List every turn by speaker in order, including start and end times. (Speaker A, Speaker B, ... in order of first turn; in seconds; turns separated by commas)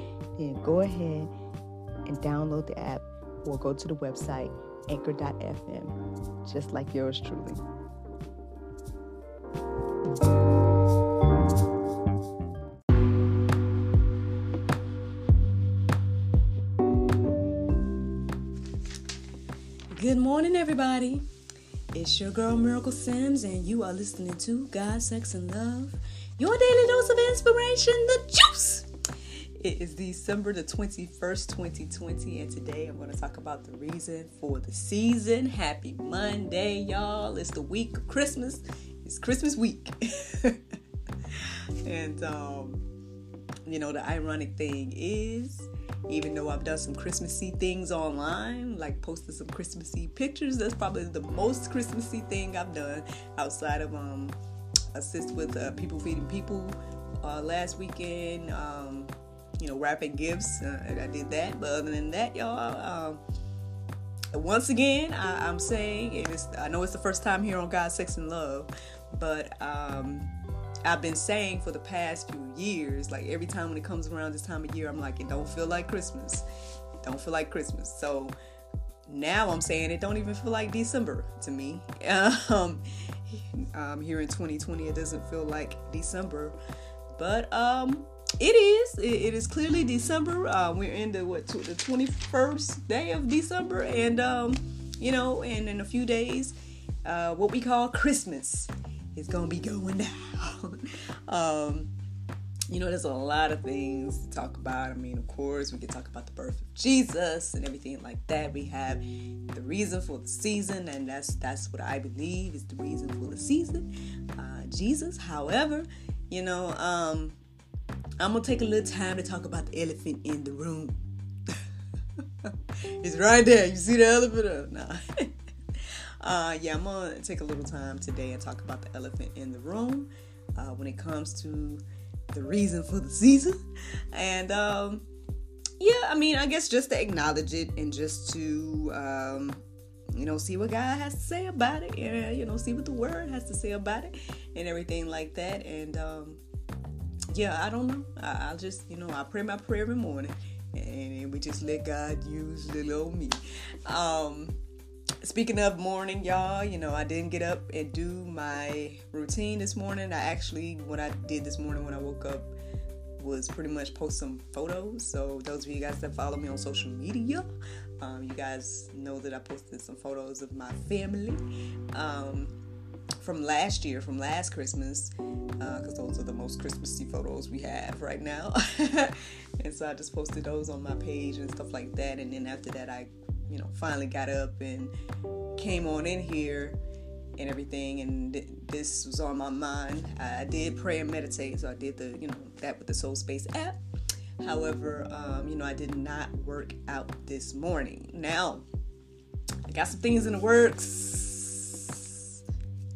Speaker A: 0.4-1.3, Speaker A: 2.1-7.6, Speaker A: 19.9-21.2, Speaker A: 21.9-28.9, Speaker A: 29.6-40.6, Speaker A: 41.3-42.8, Speaker A: 43.7-54.4, Speaker A: 54.9-63.2, Speaker A: 64.3-70.3, Speaker A: 70.8-76.5, Speaker A: 77.0-78.3, Speaker A: 79.1-86.6, Speaker A: 87.2-101.9, Speaker A: 102.7-117.4, Speaker A: 118.2-121.6, Speaker A: 122.2-133.6, Speaker A: 134.1-135.1, Speaker A: 135.8-139.6, Speaker A: 140.2-146.4, Speaker A: 147.3-154.6, Speaker A: 155.2-162.5, Speaker A: 163.2-167.4, Speaker A: 168.0-171.4, Speaker A: 171.9-172.5, Speaker A: 173.2-184.9, Speaker A: 185.6-186.8, Speaker A: 187.4-193.8, Speaker A: 194.4-198.7, Speaker A: 199.7-202.3